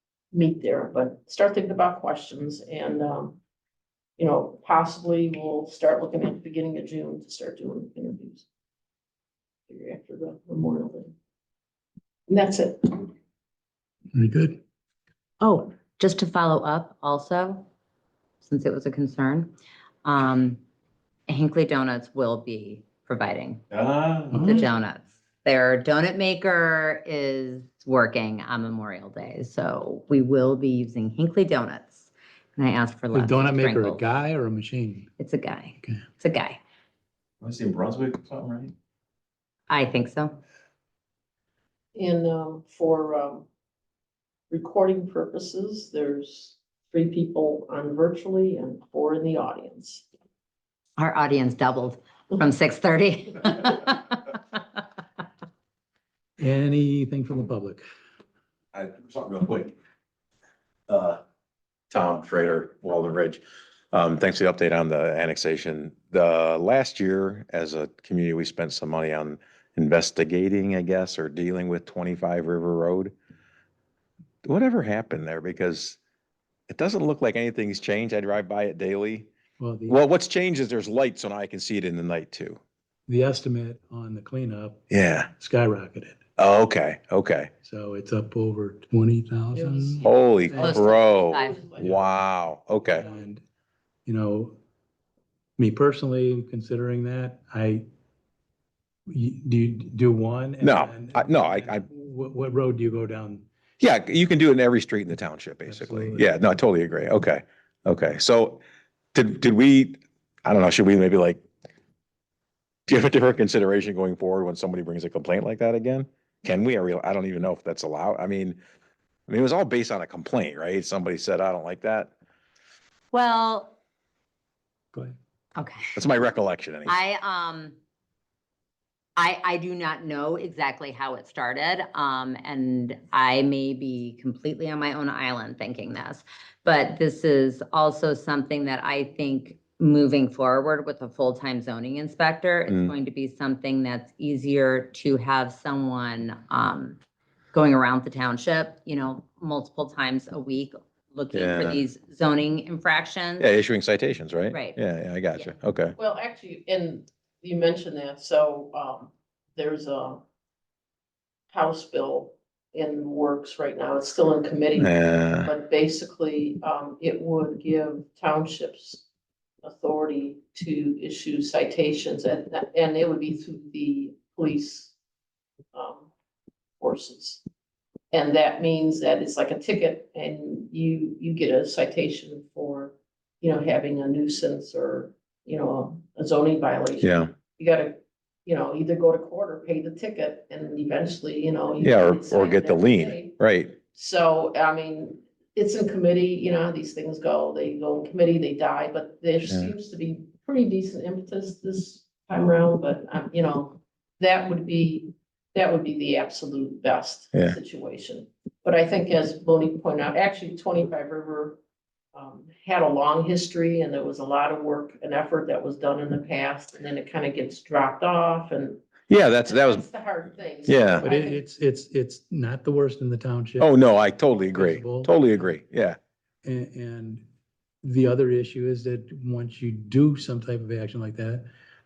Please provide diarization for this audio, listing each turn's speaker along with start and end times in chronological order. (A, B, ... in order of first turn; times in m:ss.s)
0:00.3-0:03.4 A
0:04.2-0:08.5 A
0:09.7-0:11.2 A
0:12.3-0:13.1 A
0:14.1-0:14.6 B
0:15.4-0:17.7 C
0:18.4-0:19.5 C
0:20.0-0:20.6 C
0:21.3-0:23.6 C
0:23.7-0:24.6 D
0:24.3-0:24.7 B
0:24.4-0:34.0 C
0:33.1-0:35.1 B
0:35.2-0:36.6 C
0:37.4-0:38.7 D
0:39.7-0:40.4 C
0:42.0-0:43.5 A
0:44.5-0:50.1 A
0:51.0-0:54.8 C
0:56.4-0:57.8 B
0:58.7-0:59.7 D
1:00.9-1:01.2 D
1:01.9-1:03.4 D
1:03.9-1:13.1 D
1:14.4-1:16.0 D
1:16.7-1:19.3 D
1:19.6-1:20.0 B
1:19.9-1:22.6 D
1:23.1-1:26.2 B
1:24.9-1:25.3 D
1:26.4-1:27.5 D
1:27.6-1:30.9 B
1:29.5-1:32.0 A
1:30.0-1:33.1 D
1:30.6-1:31.6 C
1:31.8-1:32.1 B
1:32.8-1:33.3 A
1:33.0-1:33.4 B
1:34.1-1:34.6 B
1:35.6-1:37.8 B
1:39.1-1:43.5 B
1:40.6-1:41.8 D
1:43.8-1:48.6 D
1:45.6-1:46.3 B
1:49.1-1:51.4 D
1:52.9-1:58.6 D
1:59.3-2:02.1 D
2:03.1-2:03.8 C
2:05.6-2:06.0 C
2:06.0-2:07.0 D
2:06.9-2:07.8 C
2:09.2-2:27.0 C
2:22.7-2:23.0 D
2:27.5-2:33.5 C
2:31.3-2:31.8 D
2:33.4-2:36.0 D
2:34.5-2:34.8 C
2:36.0-2:40.2 A
2:41.5-2:49.1 A
2:44.8-2:45.5 D
2:49.6-2:54.9 A
2:55.7-2:56.1 A
2:56.8-2:57.4 A
2:58.1-3:13.3 A
3:07.0-3:07.3 D
3:11.8-3:13.8 D
3:13.9-3:31.6 A
3:19.5-3:19.7 D
3:32.1-3:38.8 A
3:39.1-3:39.9 D
3:39.4-3:41.4 A
3:40.6-3:41.1 D
3:41.0-3:43.7 B
3:43.6-3:46.0 D
3:44.5-3:45.5 B
3:46.4-3:47.2 B
3:47.8-3:51.5 B